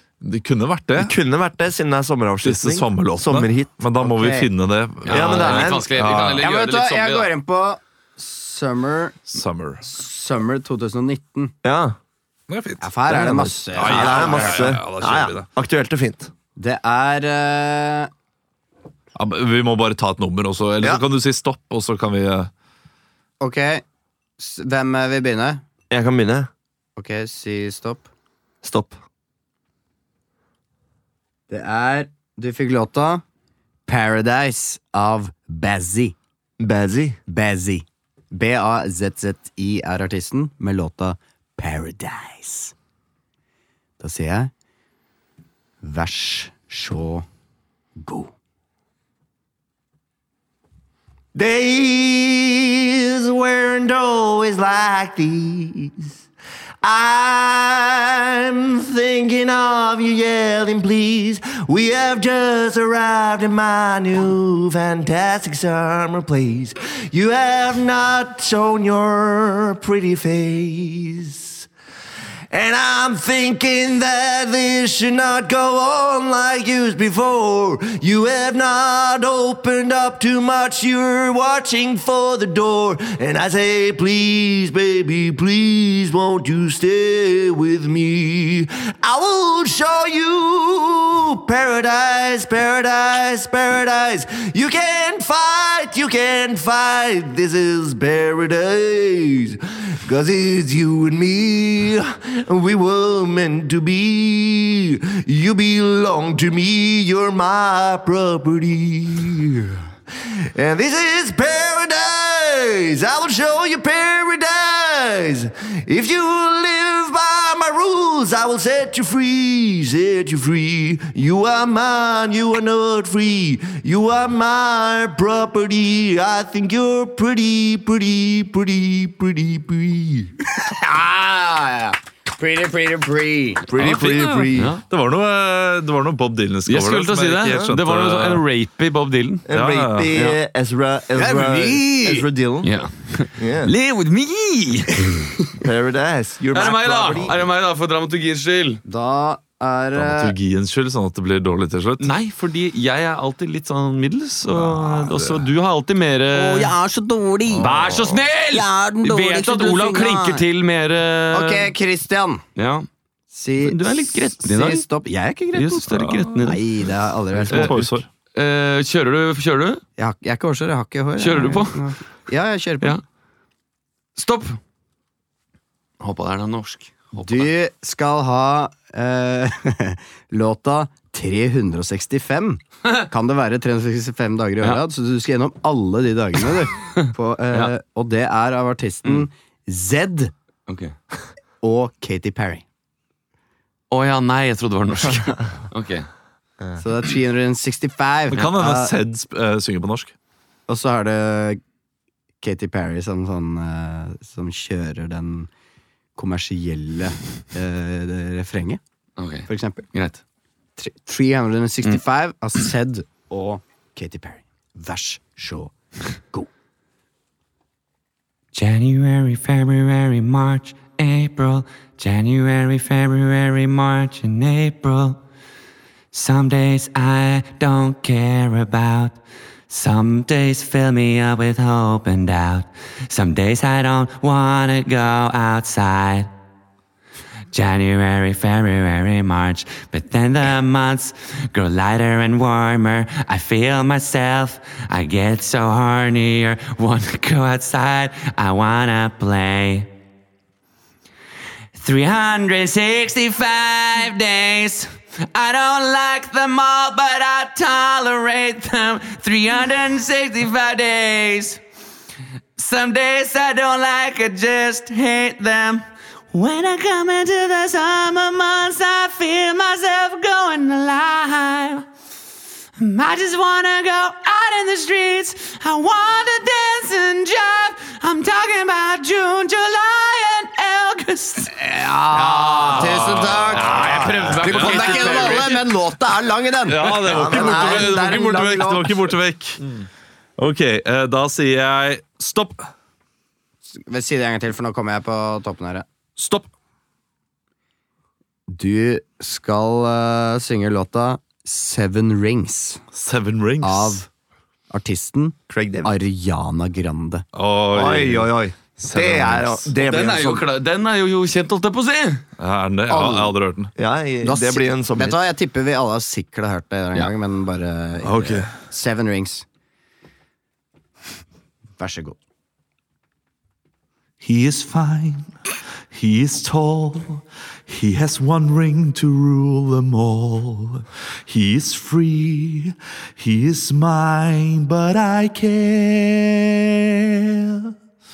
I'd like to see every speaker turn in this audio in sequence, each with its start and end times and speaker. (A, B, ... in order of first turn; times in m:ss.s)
0:00.2-0:01.2 A
0:01.0-0:03.8 B
0:02.4-0:06.5 A
0:04.0-0:04.5 C
0:05.0-0:07.3 D
0:05.1-0:05.9 B
0:06.4-0:09.2 C
0:09.3-0:09.8 A
0:09.8-0:11.5 C
0:11.6-0:12.0 B
0:12.5-0:13.0 A
0:12.8-0:14.7 C
0:13.1-0:16.3 B
0:13.7-0:15.5 A
0:16.6-0:18.1 C
0:19.2-0:22.5 A
0:23.4-0:23.8 C
0:24.4-0:25.6 C
0:25.9-0:26.5 B
0:27.0-0:28.1 C
0:28.6-0:29.0 B
0:31.5-0:33.2 C
0:33.9-0:36.2 C
0:36.6-0:37.2 B
0:37.3-0:42.7 C
0:44.0-0:44.5 C
0:45.8-0:47.3 C
0:48.0-0:48.3 C
0:51.3-0:56.2 B
0:56.8-1:11.7 B
1:12.5-2:10.3 B
2:10.6-2:13.6 C
2:13.7-2:14.7 B
2:13.8-2:18.4 A
2:14.5-2:14.8 D
2:16.7-2:19.4 D
2:19.5-2:22.8 B
2:19.5-2:20.1 A
2:21.2-2:22.3 C
2:22.6-2:25.3 D
2:23.4-2:23.7 B
2:25.0-2:25.2 C
2:25.6-2:27.4 B
2:26.5-2:28.8 D
2:28.8-2:30.4 C
2:29.9-2:32.1 A
2:32.0-2:36.7 D
2:34.5-2:35.5 A
2:36.3-2:40.4 C
2:37.6-2:41.7 D
2:41.3-2:42.4 C
2:42.6-2:42.9 D
2:43.3-2:45.9 C
2:43.6-2:44.8 D
2:45.5-2:46.6 D
2:45.9-2:46.5 A
2:46.4-2:48.0 C
2:47.3-2:48.1 A
2:47.5-2:47.8 D
2:48.4-2:49.8 D
2:50.0-2:53.0 C
2:51.2-2:51.8 D
2:54.2-2:54.6 D
2:56.0-2:57.5 D
2:57.2-3:10.3 C
3:10.7-3:11.0 D
3:11.6-3:12.6 C
3:13.9-3:16.1 D
3:16.8-3:18.9 C
3:18.3-3:20.1 A
3:20.7-3:21.6 C
3:22.4-3:25.5 C
3:26.2-3:28.8 C
3:29.2-3:30.2 D
3:29.5-3:29.8 C
3:30.8-3:36.5 C
3:38.5-3:45.2 E
3:46.1-3:56.3 E
3:57.5-4:09.9 E
4:11.8-4:21.6 E
4:22.6-4:31.9 E
4:32.8-4:41.5 E
4:41.6-4:49.2 C
4:42.4-4:45.7 D
4:42.4-4:43.2 E
4:43.0-4:45.4 A
4:46.7-4:52.7 A
4:47.1-4:47.9 B
4:53.8-4:55.9 C
4:56.2-4:56.5 A
4:58.5-5:02.8 C
5:02.9-5:04.0 A
5:03.6-5:04.1 C
5:04.7-5:07.2 C
5:05.5-5:05.9 B
5:07.4-5:09.7 A
5:07.7-5:10.5 B
5:09.8-5:12.2 D
5:12.4-5:13.7 A
5:12.9-5:13.4 C
5:13.8-5:15.2 B
5:14.2-5:19.4 C
5:18.0-5:18.5 A
5:21.8-5:22.2 C
5:24.2-5:25.3 A
5:25.9-5:37.7 A